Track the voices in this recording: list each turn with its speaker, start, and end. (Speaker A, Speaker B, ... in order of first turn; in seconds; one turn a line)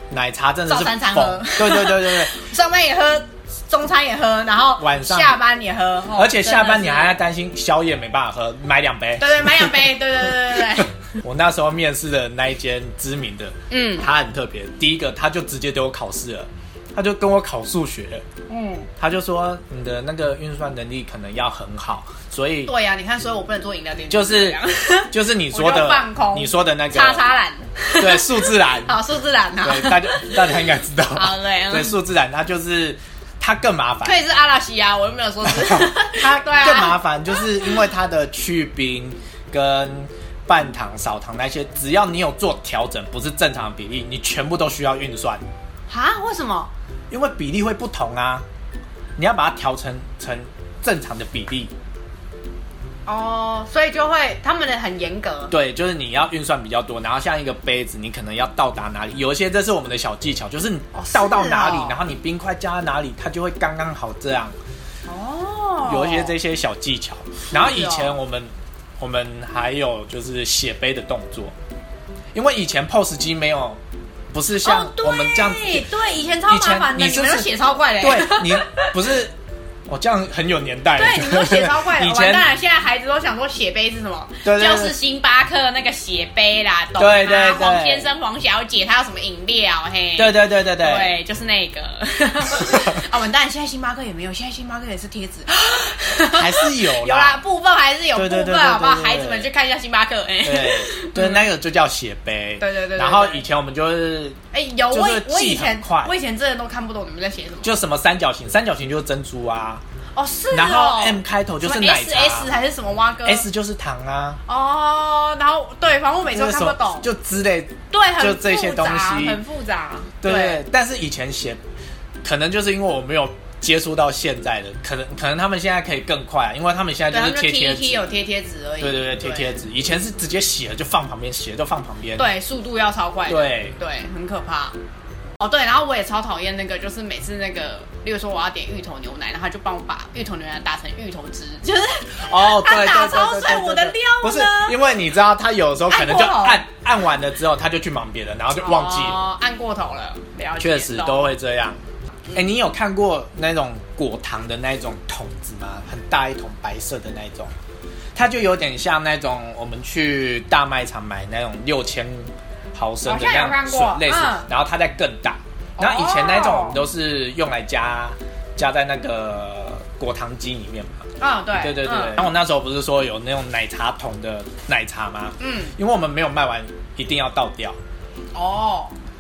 Speaker A: 0.1-2.4
Speaker B: 0.7-7.2
Speaker A: 4.8-5.4
Speaker A: 6.1-18.3
Speaker B: 9.2-10.9
Speaker B: 13.7-14.1
Speaker B: 18.5-18.9
Speaker A: 19.0-22.7
Speaker B: 22.7-31.9
Speaker A: 24.1-24.6
Speaker A: 25.1-27.2
Speaker A: 28.0-28.9
Speaker A: 29.6-34.2
Speaker B: 34.0-37.8
Speaker A: 35.5-45.4
Speaker B: 45.9-46.7
Speaker A: 47.1-48.5
Speaker A: 49.2-51.7
Speaker B: 53.1-55.5
Speaker A: 55.5-64.5
Speaker B: 60.9-62.0
Speaker B: 65.1-66.3
Speaker A: 65.8-71.5
Speaker B: 67.5-68.1
Speaker A: 72.3-73.8
Speaker A: 74.3-75.9
Speaker B: 74.6-78.9
Speaker A: 76.5-77.5
Speaker A: 78.0-79.3
Speaker A: 79.9-82.5
Speaker B: 81.0-101.5
Speaker A: 84.4-85.0
Speaker A: 87.0-88.1
Speaker A: 90.2-91.1
Speaker A: 92.6-92.9
Speaker A: 96.4-97.4
Speaker A: 98.2-99.5
Speaker A: 100.4-104.4
Speaker B: 102.6-103.4
Speaker B: 104.5-107.7
Speaker A: 104.9-106.1
Speaker A: 107.6-109.8
Speaker B: 110.2-113.5
Speaker A: 110.5-112.5
Speaker A: 113.2-114.4
Speaker B: 114.5-117.1
Speaker A: 116.3-119.4
Speaker B: 117.9-120.6
Speaker A: 120.2-121.6
Speaker A: 122.2-128.0
Speaker B: 127.1-129.5
Speaker A: 128.8-132.2
Speaker B: 132.2-134.8
Speaker A: 133.3-133.8
Speaker B: 135.4-144.8
Speaker A: 142.2-149.2
Speaker B: 145.9-146.7
Speaker B: 148.6-151.3
Speaker A: 150.6-151.8
Speaker A: 152.3-157.5
Speaker A: 158.2-171.0
Speaker B: 163.1-164.5
Speaker B: 165.8-166.8
Speaker B: 171.2-172.2
Speaker A: 171.6-177.8
Speaker B: 175.4-175.8
Speaker B: 178.3-178.9